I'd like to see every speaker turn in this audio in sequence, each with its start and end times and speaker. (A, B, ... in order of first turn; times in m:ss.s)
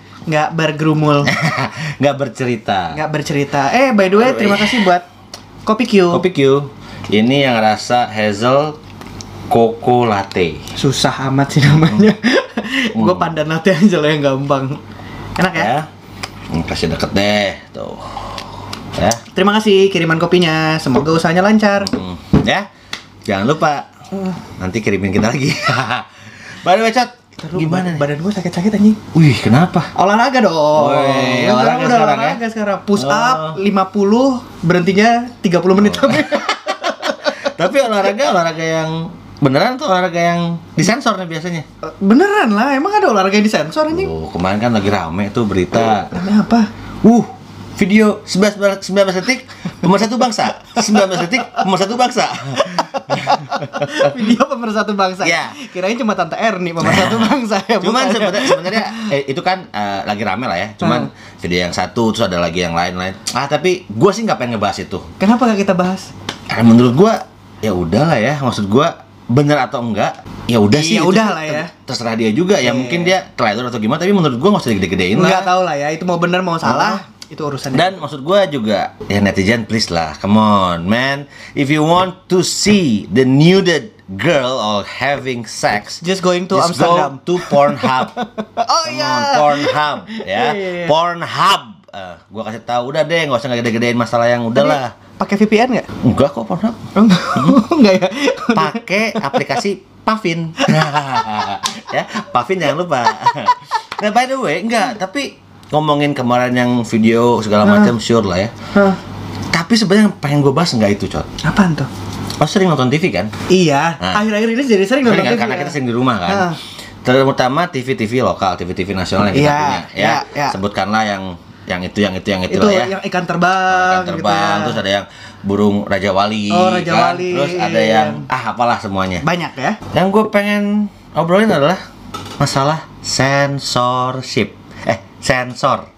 0:00.3-0:01.3 A
0:01.2-0:03.0 B
0:02.9-0:05.0 A
0:04.2-0:04.9 B
0:05.6-0:06.2 A
0:06.1-0:08.8 B
0:09.5-0:10.6 B
0:10.8-0:14.8 A
0:12.9-0:13.3 B
0:15.4-0:15.7 A
0:15.5-0:15.9 B
0:16.5-0:18.3 B
0:19.0-0:19.2 B
0:19.3-0:21.9 A
0:21.8-0:22.7 B
0:23.2-0:23.9 B
0:24.6-0:26.1 B
0:26.6-0:28.0 B
0:27.4-0:29.0 A
0:29.1-0:29.9 B
0:29.9-0:37.4 A
0:30.7-0:32.4 B
0:32.9-0:33.6 B
0:35.8-0:41.6 B
0:41.8-0:44.1 A
0:43.9-0:46.2 B
0:46.1-0:46.7 A
0:47.0-0:54.1 B
0:50.8-0:51.4 A
0:52.6-0:59.1 A
0:55.2-0:55.6 B
0:56.8-1:05.0 B
1:00.8-1:01.1 A
1:05.2-1:06.1 A
1:06.5-1:15.5 B
1:10.7-1:11.7 A
1:12.6-1:13.1 A
1:15.1-1:17.9 A
1:16.6-1:17.0 B
1:17.7-1:28.1 B
1:26.0-1:30.9 A
1:28.8-1:34.9 B
1:34.5-1:35.9 A
1:36.0-1:36.8 B
1:36.9-1:39.5 A
1:37.3-1:37.6 B
1:38.5-1:48.5 B
1:47.6-1:47.9 A
1:49.5-1:51.3 B
1:51.4-1:51.9 A
1:52.4-1:53.3 B
1:53.5-1:55.7 A
1:55.0-2:02.9 B
1:56.3-1:56.6 A
1:59.3-2:00.6 A
2:02.5-2:04.8 A
2:03.7-2:09.2 B
2:06.5-2:08.3 A
2:09.2-2:09.8 A
2:09.9-2:11.8 B
2:12.4-2:15.9 B